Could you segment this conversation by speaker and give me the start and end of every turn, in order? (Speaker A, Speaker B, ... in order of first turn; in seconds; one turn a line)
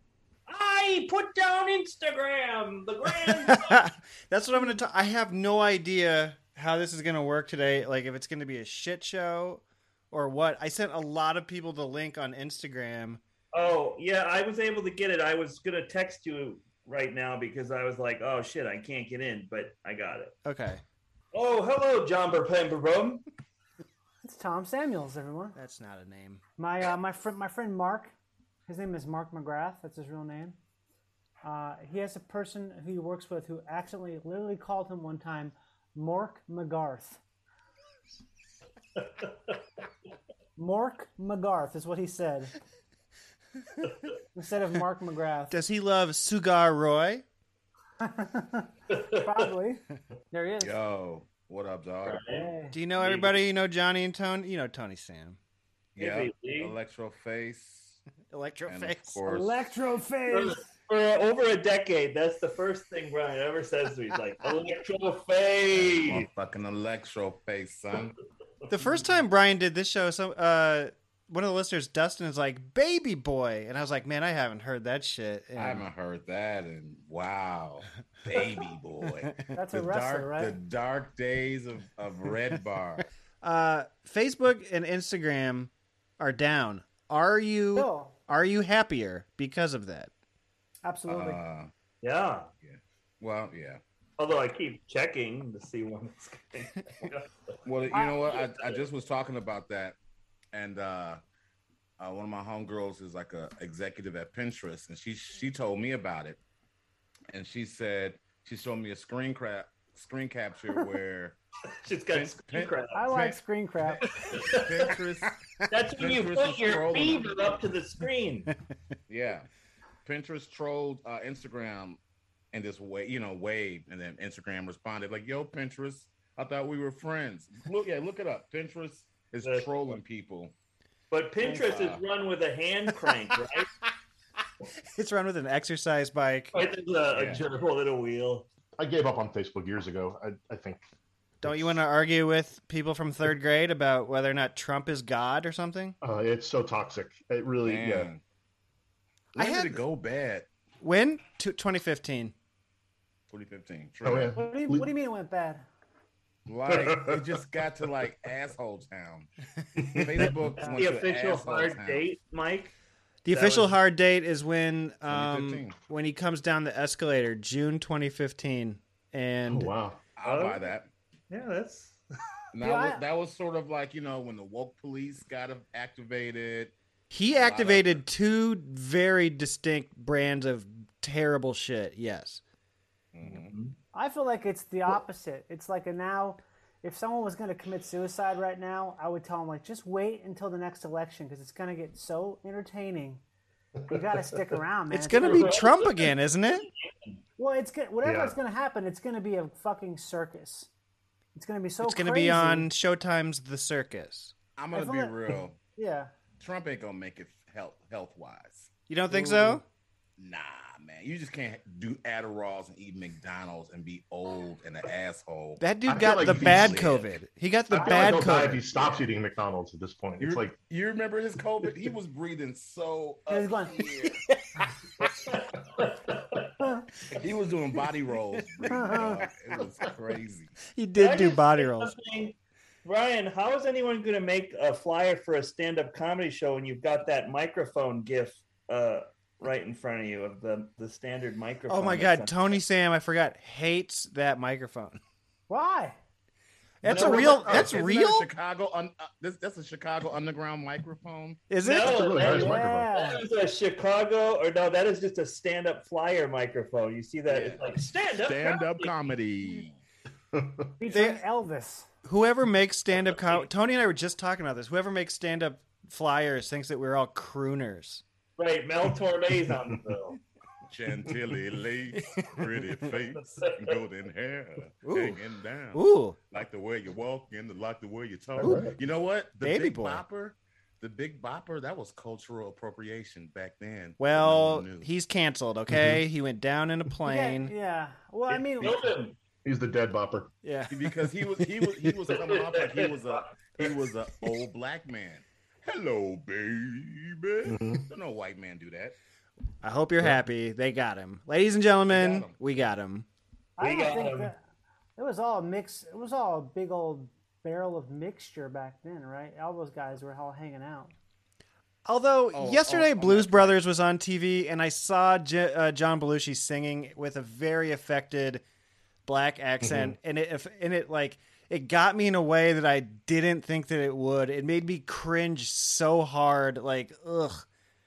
Speaker A: 0.5-3.8
Speaker B: 3.5-13.2
Speaker A: 13.5-20.3
Speaker B: 20.4-20.8
Speaker A: 21.3-23.2
Speaker C: 24.2-25.6
Speaker B: 25.5-26.4
Speaker C: 26.6-28.1
Speaker C: 28.7-30.6
Speaker C: 31.4-37.2
Speaker C: 40.6-42.5
Speaker C: 44.4-45.5
Speaker B: 45.5-47.2
Speaker C: 48.0-50.8
Speaker A: 48.9-49.3
Speaker D: 50.6-52.3
Speaker A: 52.0-53.2
Speaker C: 52.3-52.7
Speaker B: 52.7-55.4
Speaker D: 56.0-58.0
Speaker A: 56.0-56.7
Speaker B: 58.3-59.2
Speaker D: 58.7-59.7
Speaker C: 59.3-60.6
Speaker A: 60.3-66.2
Speaker D: 65.7-68.1
Speaker B: 68.7-75.8
Speaker D: 75.6-83.0
Speaker C: 79.5-80.6
Speaker B: 83.4-90.1
Speaker C: 87.8-88.1
Speaker C: 90.8-91.4
Speaker D: 91.1-91.7
Speaker A: 92.0-92.5
Speaker D: 92.6-93.8
Speaker A: 94.2-97.3
Speaker D: 97.6-100.0
Speaker A: 97.9-98.8
Speaker D: 100.5-101.2
Speaker D: 102.0-106.4
Speaker D: 107.3-111.4
Speaker A: 111.8-113.0
Speaker D: 112.1-113.4
Speaker C: 112.9-114.0
Speaker A: 114.0-114.9
Speaker D: 114.3-115.4
Speaker A: 115.7-118.5
Speaker D: 116.0-117.4
Speaker D: 119.1-119.5
Speaker D: 120.0-122.0
Speaker D: 122.5-130.5
Speaker A: 129.4-130.0
Speaker A: 131.1-133.7
Speaker D: 131.7-132.0
Speaker B: 134.9-136.5
Speaker A: 136.5-138.4
Speaker D: 137.1-137.4
Speaker E: 138.8-140.8
Speaker B: 141.4-145.9
Speaker E: 141.4-141.8
Speaker E: 146.0-148.1
Speaker D: 147.6-148.2
Speaker D: 149.3-150.5
Speaker B: 149.4-149.8
Speaker B: 150.8-152.3
Speaker D: 153.3-154.3
Speaker E: 154.0-154.9
Speaker C: 154.4-155.6
Speaker D: 156.5-159.3
Speaker E: 156.7-157.4
Speaker E: 159.8-160.4
Speaker D: 159.9-162.0
Speaker A: 160.7-162.7
Speaker B: 163.2-169.7
Speaker A: 163.3-163.7
Speaker D: 165.1-165.8
Speaker E: 169.5-170.0
Speaker D: 170.2-170.9
Speaker A: 170.2-170.6
Speaker A: 171.3-172.0
Speaker D: 172.5-176.7
Speaker C: 172.6-173.0
Speaker B: 177.1-182.4
Speaker D: 177.3-178.0
Speaker D: 183.1-183.5
Speaker A: 183.2-183.7
Speaker C: 183.9-193.2
Speaker C: 193.9-195.6
Speaker B: 194.9-196.7
Speaker A: 195.2-196.1
Speaker A: 196.8-197.2
Speaker C: 197.4-200.7
Speaker E: 198.0-198.3
Speaker C: 201.3-202.7
Speaker B: 201.8-204.3
Speaker D: 204.6-205.6
Speaker C: 204.7-205.2
Speaker C: 205.8-206.1
Speaker D: 206.4-209.6
Speaker B: 208.9-209.6
Speaker D: 210.2-217.1
Speaker B: 215.6-218.7
Speaker E: 215.8-216.8
Speaker E: 217.7-220.6
Speaker D: 217.8-219.1
Speaker D: 220.2-224.2
Speaker C: 223.3-223.8
Speaker A: 225.2-226.5
Speaker D: 227.1-230.6
Speaker B: 230.7-231.9
Speaker A: 231.0-242.6
Speaker B: 241.7-245.0
Speaker C: 245.5-246.0
Speaker B: 246.8-248.3
Speaker E: 246.8-247.8
Speaker D: 246.8-251.4
Speaker B: 251.5-252.2
Speaker A: 251.6-258.9
Speaker E: 251.8-252.9
Speaker C: 252.3-253.2
Speaker D: 257.3-257.7
Speaker D: 258.2-259.7
Speaker E: 260.3-260.7
Speaker C: 260.8-261.9
Speaker B: 260.9-261.2
Speaker B: 262.0-268.0
Speaker A: 268.4-270.2
Speaker D: 270.7-284.9
Speaker B: 272.1-272.4
Speaker A: 273.4-273.8
Speaker B: 274.8-275.2
Speaker B: 275.7-276.2
Speaker E: 278.4-278.8
Speaker B: 278.4-278.8
Speaker B: 279.4-280.0
Speaker B: 284.0-287.5
Speaker E: 285.7-286.0
Speaker C: 287.1-288.8
Speaker A: 288.3-289.1
Speaker E: 289.4-290.3
Speaker B: 290.4-291.9
Speaker D: 290.7-298.9
Speaker A: 292.1-293.7
Speaker E: 297.4-297.9
Speaker B: 299.6-303.1
Speaker D: 301.9-302.4
Speaker C: 303.6-304.4
Speaker A: 303.6-304.3
Speaker C: 305.0-310.9
Speaker B: 311.9-318.4
Speaker D: 312.3-313.6
Speaker B: 319.1-327.4
Speaker E: 319.6-320.0